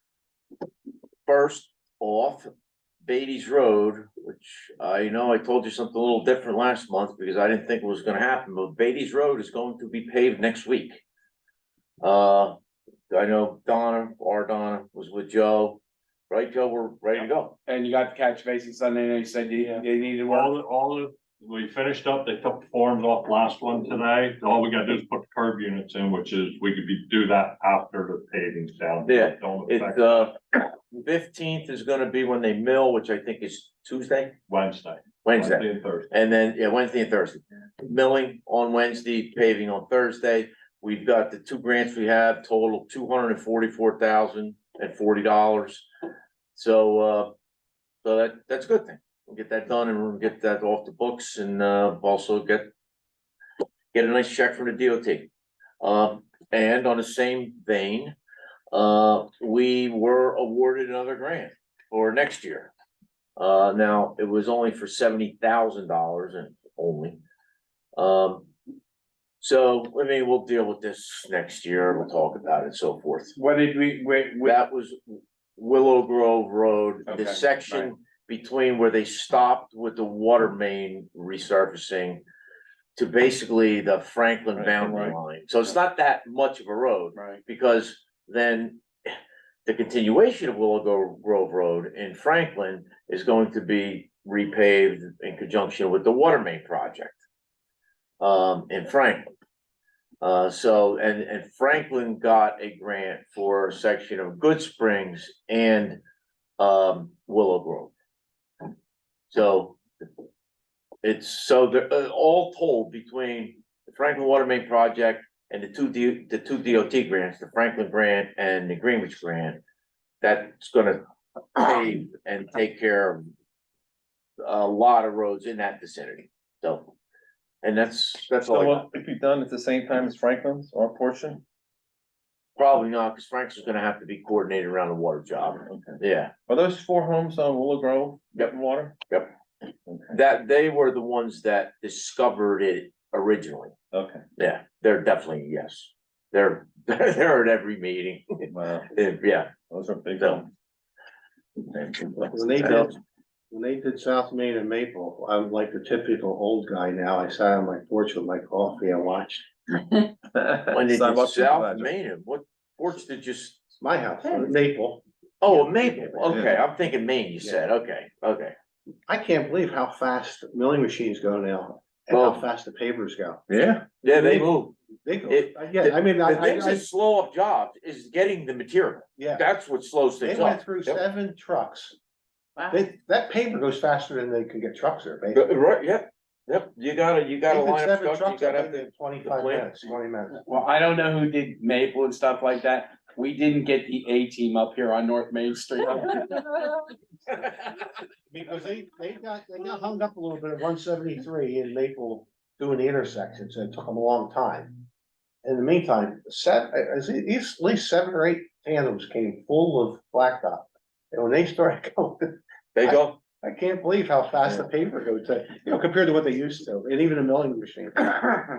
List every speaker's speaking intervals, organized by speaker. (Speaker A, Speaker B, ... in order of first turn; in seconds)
Speaker A: 1.2-2.5, 3.0-11.0, 12.0-12.6, 13.1-17.6, 29.0-34.4, 35.2-45.9, 46.5-47.3, 48.0-52.7, 53.9-55.3, 55.8-58.1, 58.7-62.7, 63.4-67.2, 68.0-68.5, 69.4-73.3, 74.4-82.2, 82.9-97.2, 98.2-99.2, 100.2-106.0, 106.6-107.9, 109.3-109.8, 111.0-119.6, 120.2-121.0, 121.5-123.3, 124.4-126.9, 127.6-128.9, 132.6-136.3, 140.1-143.7, 144.4-149.5, 150.2-150.4, 151.6-152.9, 160.7-163.7, 165.4-168.5, 172.1-172.4, 174.0-174.7, 175.3-181.0, 185.3-189.9, 212.7-213.2
Speaker B: 17.6-20.5, 73.3-74.6, 77.0-77.9, 190.4-196.5
Speaker C: 20.2-30.3, 34.5-36.1
Speaker D: 84.5-85.2, 128.4-131.4, 135.7-138.9, 139.8-140.1, 143.9-144.2, 148.5-148.9, 149.7-150.5, 160.3-161.9, 166.3-166.6, 173.5-173.8
Speaker E: 152.2-153.0, 153.5-159.4, 163.8-166.2, 169.1-173.4, 174.0-174.5, 175.0-176.8, 179.2-179.4, 180.2-181.9, 182.7-185.5, 187.5-190.4, 198.3-204.8, 205.4-212.3, 212.8-218.5